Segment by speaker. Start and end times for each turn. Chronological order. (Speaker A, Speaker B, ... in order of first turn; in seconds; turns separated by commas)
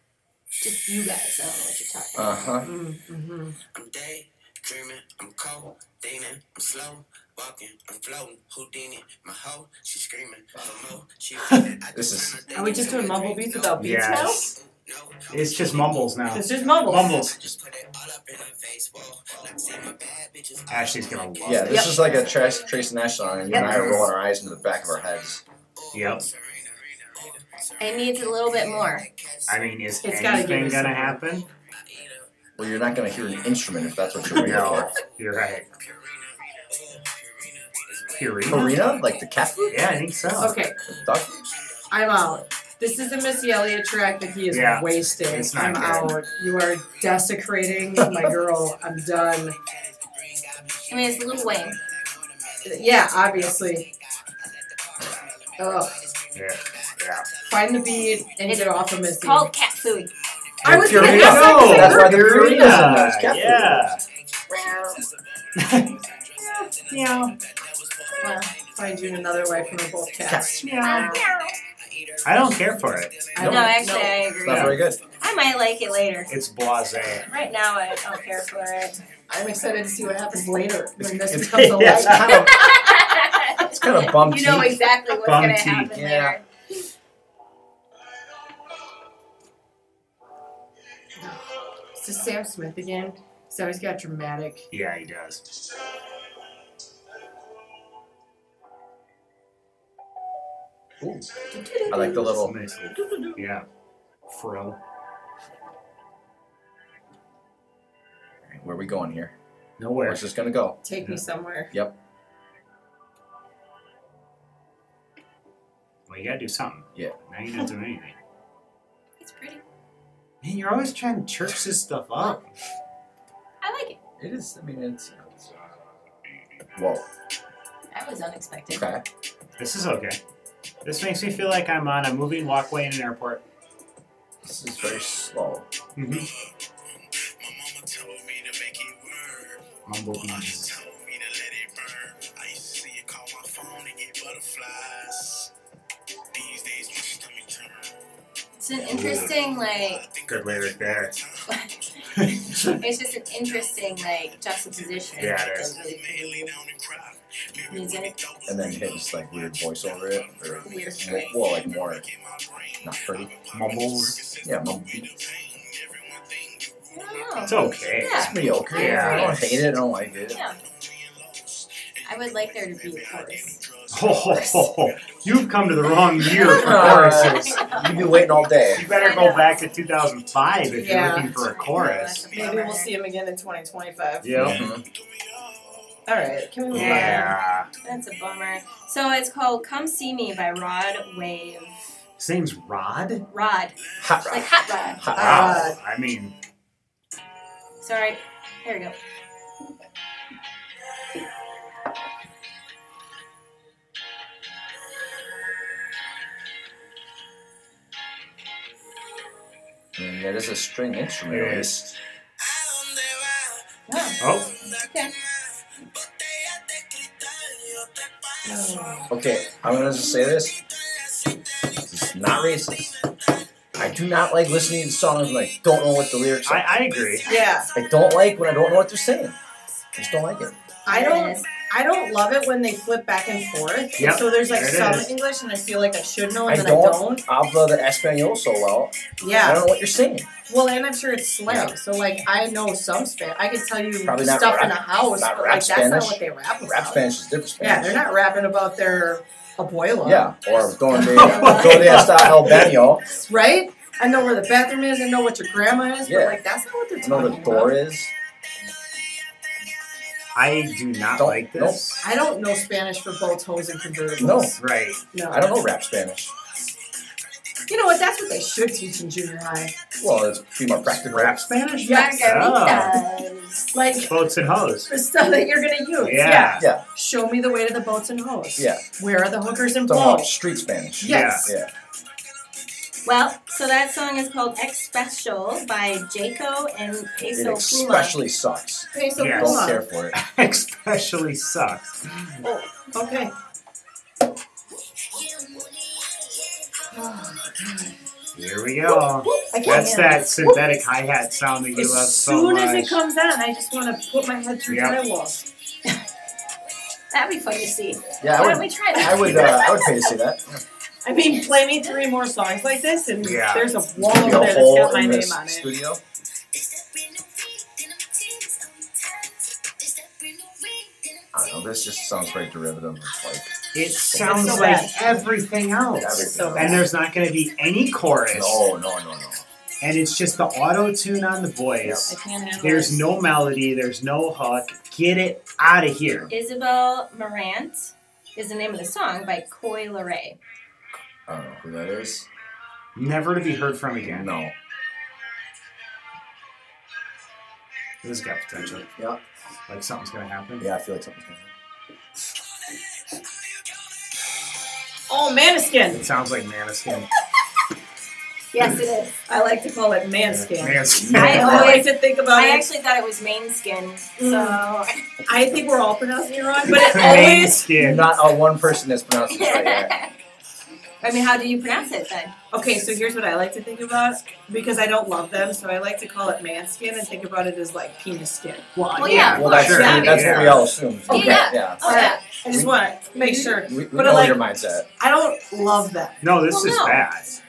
Speaker A: 0.6-2.6, Speaker B: 2.2-2.7, Speaker C: 2.6-3.6, Speaker D: 3.7-13.8, Speaker E: 11.4-11.7, Speaker B: 11.9-12.4, Speaker C: 12.5-14.5, Speaker E: 13.8-14.5, Speaker D: 14.4-16.1, Speaker E: 15.3-17.4, Speaker C: 16.3-17.1, Speaker D: 17.1-21.6, Speaker E: 20.7-22.1, Speaker B: 21.4-25.4, Speaker C: 21.7-22.0, Speaker D: 22.1-22.7, Speaker E: 23.5-24.1, Speaker C: 23.5-23.9, Speaker D: 25.8-29.7, Speaker E: 25.9-26.3, Speaker A: 27.8-29.1, Speaker E: 29.5-31.5, Speaker C: 30.0-31.2, Speaker D: 31.5-32.3, Speaker B: 32.6-34.9, Speaker D: 33.1-33.6, Speaker D: 34.3-34.9, Speaker E: 34.3-35.7, Speaker D: 35.7-39.1, Speaker E: 38.2-38.8, Speaker B: 38.5-39.8, Speaker E: 39.7-40.6, Speaker C: 40.4-40.8, Speaker B: 40.9-41.4, Speaker D: 41.4-42.1, Speaker C: 41.9-49.6, Speaker D: 42.8-43.4, Speaker E: 44.5-46.2, Speaker D: 46.4-47.2, Speaker B: 48.0-48.3, Speaker D: 48.5-58.4, Speaker A: 50.9-51.8, Speaker C: 52.6-53.9, Speaker C: 55.6-56.0, Speaker E: 56.4-57.3, Speaker C: 57.5-59.5, Speaker A: 58.5-62.1, Speaker B: 60.6-63.9, Speaker E: 60.6-64.0, Speaker C: 60.7-62.7, Speaker D: 64.0-74.4, Speaker A: 64.5-65.0, Speaker E: 65.6-66.0, Speaker E: 66.9-67.3, Speaker A: 68.2-68.5, Speaker C: 68.8-71.2, Speaker B: 70.3-70.7, Speaker E: 70.7-71.0, Speaker A: 70.7-71.6, Speaker E: 72.2-73.5, Speaker C: 73.4-74.3, Speaker A: 73.4-76.3, Speaker B: 74.4-75.0, Speaker E: 74.5-74.8, Speaker E: 76.3-77.3, Speaker A: 77.2-79.0, Speaker C: 79.3-82.5, Speaker B: 81.3-82.8, Speaker E: 81.3-82.5, Speaker A: 82.3-86.4, Speaker B: 83.6-84.8, Speaker E: 85.1-86.0, Speaker B: 85.9-86.4, Speaker C: 92.0-94.7, Speaker E: 94.7-95.4, Speaker B: 101.0-101.3, Speaker A: 101.5-102.3, Speaker C: 101.7-102.0, Speaker B: 101.9-102.5, Speaker E: 102.0-103.7, Speaker E: 104.3-104.8, Speaker B: 108.5-109.3, Speaker E: 109.8-110.2, Speaker B: 110.0-110.8, Speaker C: 110.8-111.7, Speaker E: 116.1-118.2, Speaker A: 119.2-119.6, Speaker E: 120.4-122.5, Speaker A: 123.6-124.0, Speaker B: 124.2-125.4, Speaker B: 126.8-127.0, Speaker A: 127.9-128.9, Speaker B: 128.7-129.0, Speaker E: 129.6-130.2, Speaker E: 130.8-133.4, Speaker B: 134.4-135.7, Speaker E: 136.0-136.3, Speaker D: 136.2-145.5, Speaker E: 139.9-140.8, Speaker D: 146.3-148.0, Speaker A: 148.6-150.0, Speaker E: 148.9-149.3, Speaker D: 149.0-152.3, Speaker E: 150.3-151.2, Speaker A: 151.5-151.7, Speaker E: 152.2-152.8, Speaker A: 152.4-156.6, Speaker D: 154.8-168.1, Speaker E: 155.2-155.7, Speaker A: 157.7-158.2, Speaker B: 158.5-162.0, Speaker A: 160.6-161.3, Speaker B: 162.8-163.3, Speaker E: 163.5-164.2, Speaker B: 164.4-165.1, Speaker A: 166.9-169.4, Speaker E: 167.5-169.4, Speaker B: 168.1-170.4, Speaker D: 170.2-176.4, Speaker A: 170.3-170.6, Speaker A: 172.1-173.6, Speaker E: 173.9-177.8, Speaker A: 176.2-178.2, Speaker B: 176.4-178.9, Speaker D: 177.7-178.2, Speaker E: 178.7-182.3, Speaker A: 178.9-179.7, Speaker C: 180.8-181.3, Speaker A: 181.1-182.9, Speaker C: 182.3-184.4, Speaker E: 184.2-184.6, Speaker B: 184.3-184.8, Speaker D: 184.6-186.8, Speaker C: 186.1-187.3, Speaker E: 186.7-187.7, Speaker A: 186.8-187.3, Speaker D: 187.3-188.0, Speaker A: 187.8-191.9, Speaker E: 192.2-193.3, Speaker A: 193.3-193.8, Speaker B: 194.0-195.7, Speaker A: 194.3-195.1, Speaker C: 195.2-195.8, Speaker E: 195.2-196.3, Speaker A: 197.8-199.0, Speaker B: 210.0-211.9, Speaker E: 211.3-211.8, Speaker D: 212.4-223.1, Speaker A: 213.9-215.1, Speaker E: 214.2-214.5, Speaker C: 218.4-219.1, Speaker B: 219.1-220.6, Speaker B: 221.9-222.9, Speaker B: 223.8-226.7, Speaker E: 226.4-227.3, Speaker C: 227.3-227.7, Speaker B: 227.8-229.3, Speaker B: 229.9-230.6, Speaker C: 230.9-237.2, Speaker A: 230.9-231.5, Speaker E: 234.0-235.1, Speaker B: 236.5-240.3, Speaker C: 239.2-239.7, Speaker C: 240.5-247.0, Speaker B: 244.0-248.0, Speaker C: 247.6-250.3, Speaker B: 250.0-253.1, Speaker C: 250.9-252.1, Speaker E: 250.9-252.8, Speaker A: 251.3-251.7, Speaker C: 253.1-257.8, Speaker B: 256.0-256.4, Speaker B: 257.0-258.1, Speaker E: 260.4-262.1, Speaker B: 261.2-261.8, Speaker C: 262.0-264.6, Speaker B: 264.2-264.6, Speaker E: 264.6-265.0, Speaker C: 265.1-265.5, Speaker B: 265.3-266.3, Speaker C: 267.7-269.7, Speaker B: 270.0-271.4, Speaker E: 271.1-273.0, Speaker A: 271.8-273.7, Speaker C: 271.9-272.1, Speaker C: 273.7-274.1, Speaker E: 274.0-274.9, Speaker C: 274.9-280.3, Speaker E: 276.0-276.6, Speaker B: 276.6-276.8, Speaker B: 278.6-278.8, Speaker B: 279.9-281.7, Speaker C: 281.0-281.5, Speaker E: 281.0-281.5, Speaker A: 283.1-288.2, Speaker B: 287.3-290.2, Speaker C: 288.9-289.8, Speaker E: 289.2-292.0, Speaker C: 292.4-293.3, Speaker D: 295.1-296.8, Speaker C: 296.9-297.9, Speaker E: 298.4-303.0, Speaker C: 299.2-300.6, Speaker C: 301.8-305.4, Speaker E: 304.7-305.0, Speaker A: 307.1-310.0, Speaker B: 308.2-310.6, Speaker E: 309.1-309.6, Speaker C: 311.0-315.7, Speaker E: 313.2-313.7, Speaker B: 314.0-316.0, Speaker D: 316.5-321.4, Speaker B: 321.3-325.2, Speaker E: 323.7-328.6, Speaker C: 324.1-325.2, Speaker B: 325.9-326.8, Speaker C: 326.2-326.9, Speaker B: 328.3-329.4, Speaker E: 329.8-336.3, Speaker C: 332.1-333.0, Speaker A: 336.3-340.4, Speaker B: 341.3-342.3, Speaker E: 342.9-344.3, Speaker B: 344.0-344.5, Speaker E: 348.0-348.9, Speaker E: 349.7-350.7, Speaker B: 350.6-351.5, Speaker D: 352.7-354.1, Speaker C: 355.1-356.1, Speaker E: 355.9-357.1, Speaker A: 358.5-359.1, Speaker C: 359.3-362.7, Speaker E: 360.3-361.8, Speaker B: 360.9-361.9, Speaker A: 361.1-365.0, Speaker C: 364.2-364.6, Speaker C: 365.3-367.6, Speaker E: 366.7-368.1, Speaker A: 366.7-367.5, Speaker B: 367.8-369.9, Speaker A: 369.3-370.1, Speaker A: 371.0-372.4, Speaker C: 372.5-380.5, Speaker E: 378.8-380.7, Speaker A: 378.9-382.2, Speaker B: 379.1-382.8, Speaker C: 381.1-384.4, Speaker A: 383.1-383.6, Speaker B: 383.6-384.9, Speaker C: 385.0-386.2, Speaker E: 386.2-387.4, Speaker A: 386.5-387.1